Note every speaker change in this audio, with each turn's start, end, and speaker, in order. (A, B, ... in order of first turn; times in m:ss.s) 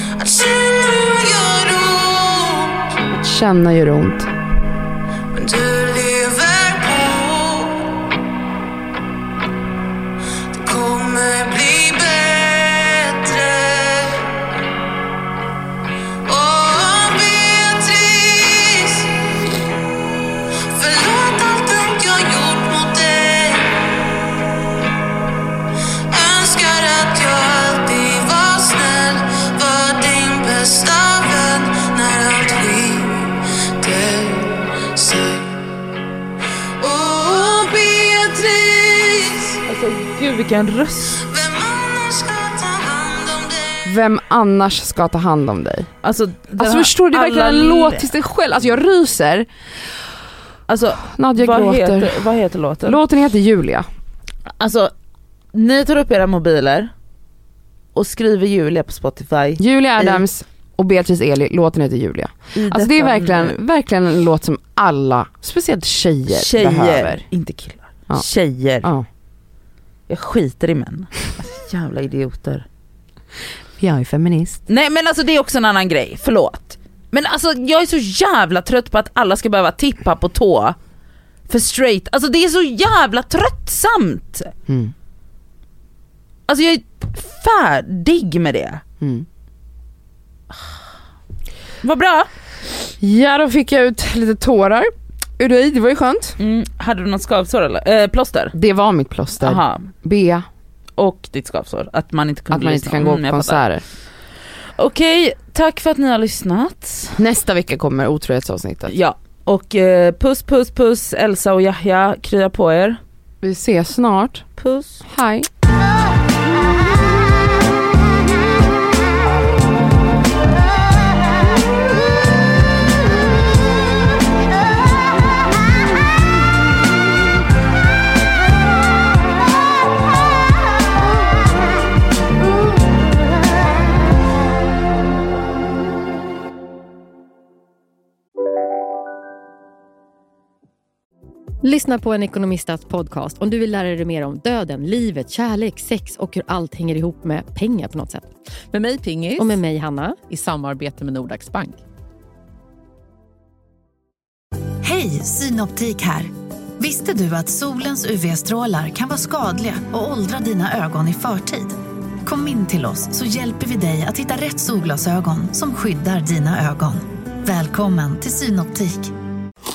0:00.2-0:02.9 A
0:03.1-0:04.3 B
0:05.3-0:07.9 A
0:10.5-0:14.3 A
0:16.3-0:19.2 A
0:20.7-0:23.8 A
0:26.1-0:35.5 A
0:36.8-0:39.6 A
0:39.7-0:41.2 C
0:41.1-0:43.8 A
0:43.8-0:45.9 B
0:46.0-0:48.1 C
0:46.6-0:49.5 B
0:50.7-0:53.0 C
0:51.0-0:52.2 B
0:52.8-0:53.9 B
0:54.6-0:54.9 C
0:55.5-0:56.9 C
0:57.9-1:00.2 C
0:59.6-1:07.2 B
1:02.6-1:03.6 C
1:06.3-1:08.9 C
1:10.1-1:12.7 C
1:13.8-1:14.6 B
1:14.7-1:20.8 C
1:21.5-1:24.5 C
1:24.7-1:24.9 B
1:26.5-1:28.8 C
1:29.0-1:29.3 B
1:31.8-1:32.3 C
1:33.0-1:36.4 B
1:36.4-1:38.5 C
1:38.5-1:40.4 B
1:39.4-1:39.9 C
1:41.0-1:43.6 C
1:42.5-1:43.8 B
1:44.8-1:47.2 C
1:47.2-1:48.9 B
1:48.9-1:53.0 C
1:53.4-1:54.4 B
1:54.6-1:55.0 C
1:55.0-1:55.5 B
2:21.6-2:28.3 D
2:28.7-2:29.6 E
2:29.4-2:30.2 D
2:30.3-2:31.8 E
2:34.8-2:49.1 F